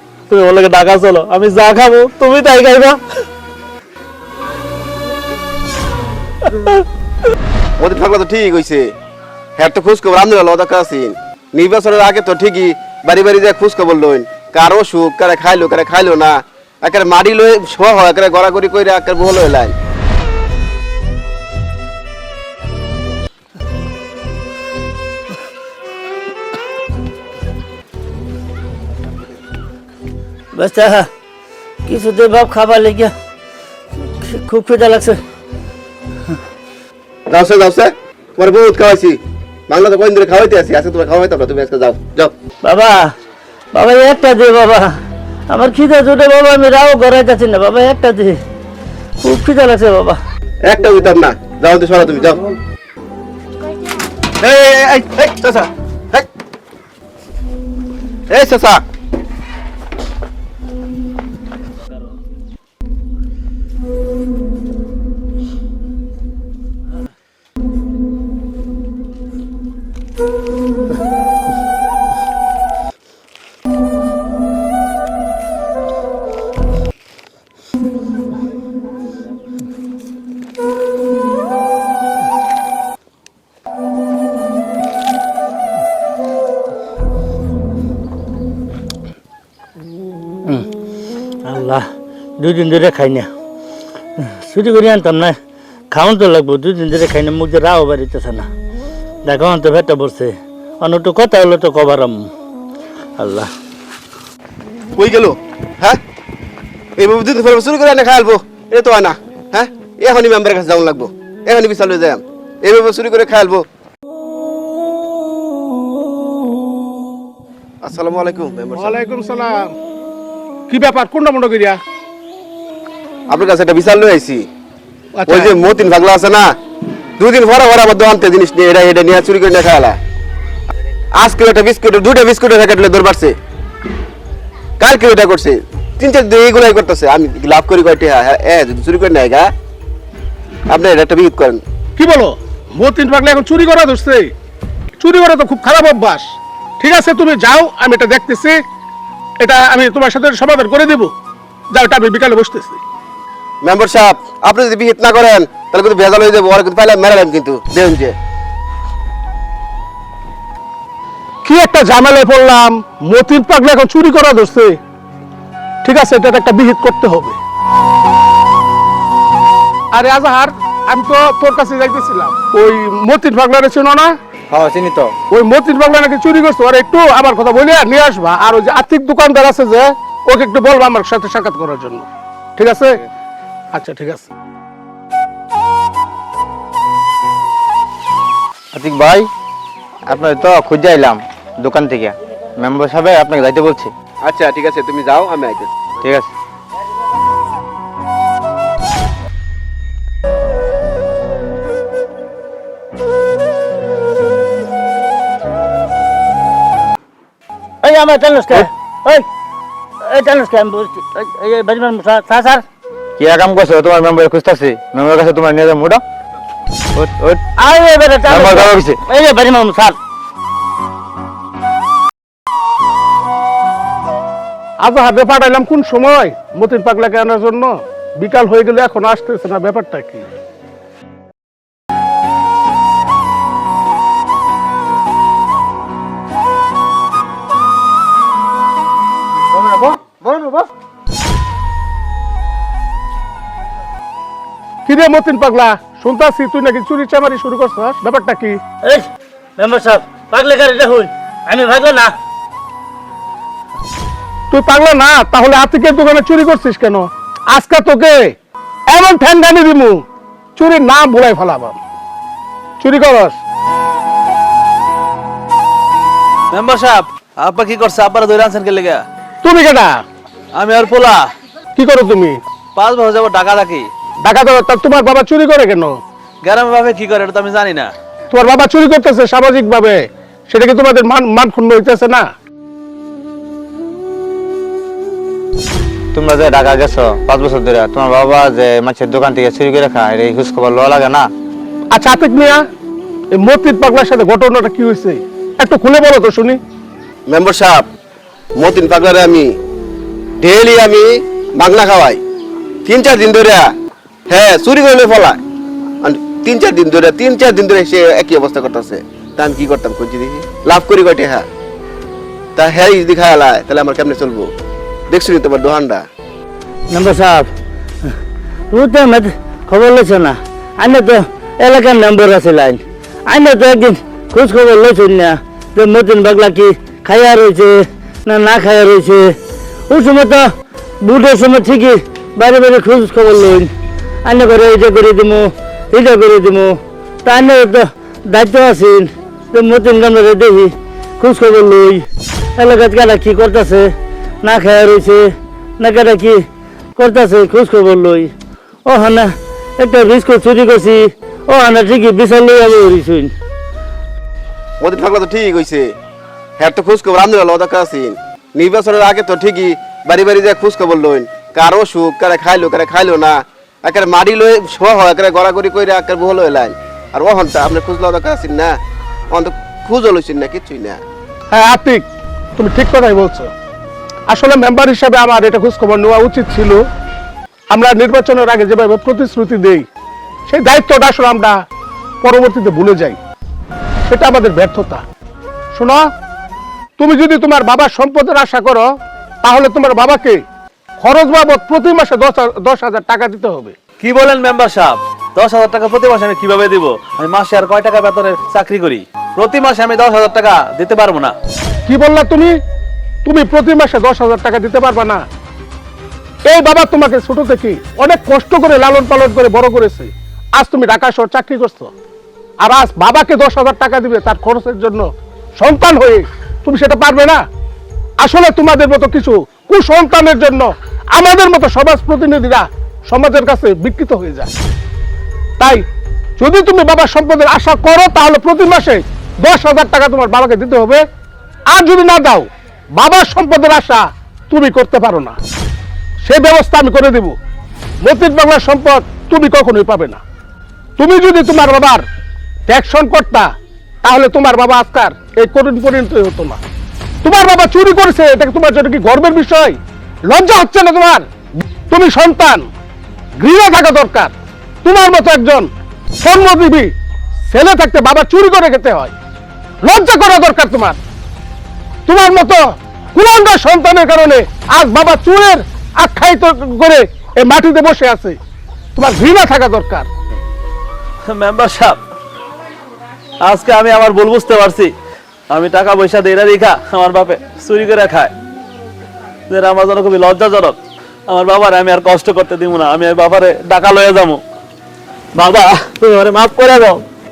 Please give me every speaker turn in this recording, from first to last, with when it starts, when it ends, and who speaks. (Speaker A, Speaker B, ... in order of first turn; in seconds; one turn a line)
Speaker A: 0.3-3.0
Speaker B: 7.8-8.9
Speaker B: 9.6-19.7
Speaker C: 30.5-31.1
Speaker C: 31.8-33.1
Speaker C: 34.0-35.2
Speaker B: 37.3-42.3
Speaker C: 42.6-43.1
Speaker C: 43.7-48.4
Speaker C: 49.2-50.2
Speaker B: 50.6-52.4
Speaker B: 54.4-56.2
Speaker B: 58.3-58.8
Speaker C: 91.4-91.9
Speaker C: 92.4-93.3
Speaker C: 94.2-95.3
Speaker C: 95.9-98.5
Speaker C: 99.2-102.3
Speaker C: 103.2-103.5
Speaker B: 105.0-106.0
Speaker B: 107.0-113.6
Speaker B: 117.8-119.0
Speaker D: 118.8-119.7
Speaker D: 120.7-121.8
Speaker B: 123.3-124.5
Speaker D: 125.1-125.5
Speaker B: 125.3-126.5
Speaker B: 127.2-130.0
Speaker B: 131.2-133.3
Speaker B: 134.8-139.5
Speaker B: 140.7-141.6
Speaker D: 142.0-144.3
Speaker D: 145.0-148.6
Speaker D: 149.4-151.1
Speaker D: 151.7-152.8
Speaker B: 153.6-158.1
Speaker D: 161.4-164.8
Speaker D: 165.8-167.4
Speaker D: 169.9-174.1
Speaker E: 174.5-175.1
Speaker D: 175.3-183.0
Speaker D: 183.7-184.3
Speaker E: 188.7-189.3
Speaker E: 190.1-193.9
Speaker B: 194.2-195.9
Speaker E: 196.0-196.3
Speaker C: 207.8-209.2
Speaker C: 210.0-212.6
Speaker E: 213.2-216.0
Speaker E: 216.9-217.4
Speaker C: 217.6-220.0
Speaker E: 218.3-219.0
Speaker D: 224.8-230.2
Speaker D: 244.8-248.6
Speaker C: 248.8-252.1
Speaker D: 254.5-258.3
Speaker D: 258.9-260.0
Speaker D: 260.6-261.8
Speaker D: 262.8-263.4
Speaker A: 266.5-269.0
Speaker D: 269.4-270.0
Speaker A: 270.5-271.3
Speaker D: 271.8-272.4
Speaker A: 272.7-273.9
Speaker D: 274.2-276.0
Speaker A: 276.4-277.9
Speaker D: 278.3-282.3
Speaker E: 286.1-291.3
Speaker D: 291.9-292.6
Speaker D: 293.3-296.6
Speaker B: 297.3-297.9
Speaker B: 298.6-299.5
Speaker B: 300.4-302.2
Speaker B: 302.8-303.7
Speaker B: 304.3-305.4
Speaker B: 306.0-311.4
Speaker B: 312.6-314.5
Speaker B: 315.1-316.0
Speaker C: 316.9-317.5
Speaker C: 318.7-329.3
Speaker C: 329.9-333.7
Speaker C: 334.2-342.1
Speaker C: 342.6-343.9
Speaker C: 344.4-346.4
Speaker C: 347.0-348.3
Speaker C: 348.9-353.3
Speaker B: 354.8-355.9
Speaker B: 356.6-368.8
Speaker B: 369.3-371.0
Speaker D: 371.5-373.5
Speaker D: 374.3-376.8
Speaker D: 377.7-379.9
Speaker D: 380.5-381.6
Speaker D: 382.2-383.2
Speaker D: 384.1-385.0
Speaker D: 385.7-386.1
Speaker D: 387.0-390.4
Speaker D: 391.0-393.7
Speaker A: 394.0-401.3
Speaker D: 401.9-402.6
Speaker D: 403.2-405.2
Speaker D: 406.4-411.9
Speaker D: 412.6-417.4
Speaker D: 418.2-424.5
Speaker D: 425.6-425.8
Speaker D: 426.4-431.0
Speaker D: 431.7-435.4
Speaker D: 436.2-437.4
Speaker D: 438.0-440.2
Speaker D: 441.0-442.0
Speaker D: 442.7-443.5
Speaker D: 444.0-446.6
Speaker D: 447.2-451.2
Speaker D: 451.9-452.7
Speaker D: 453.4-456.9
Speaker D: 457.5-459.1
Speaker D: 459.8-461.0
Speaker D: 462.1-468.4
Speaker D: 468.9-470.1
Speaker A: 471.2-472.0
Speaker A: 473.4-474.9
Speaker A: 475.5-478.3
Speaker A: 479.5-484.4
Speaker A: 485.3-487.0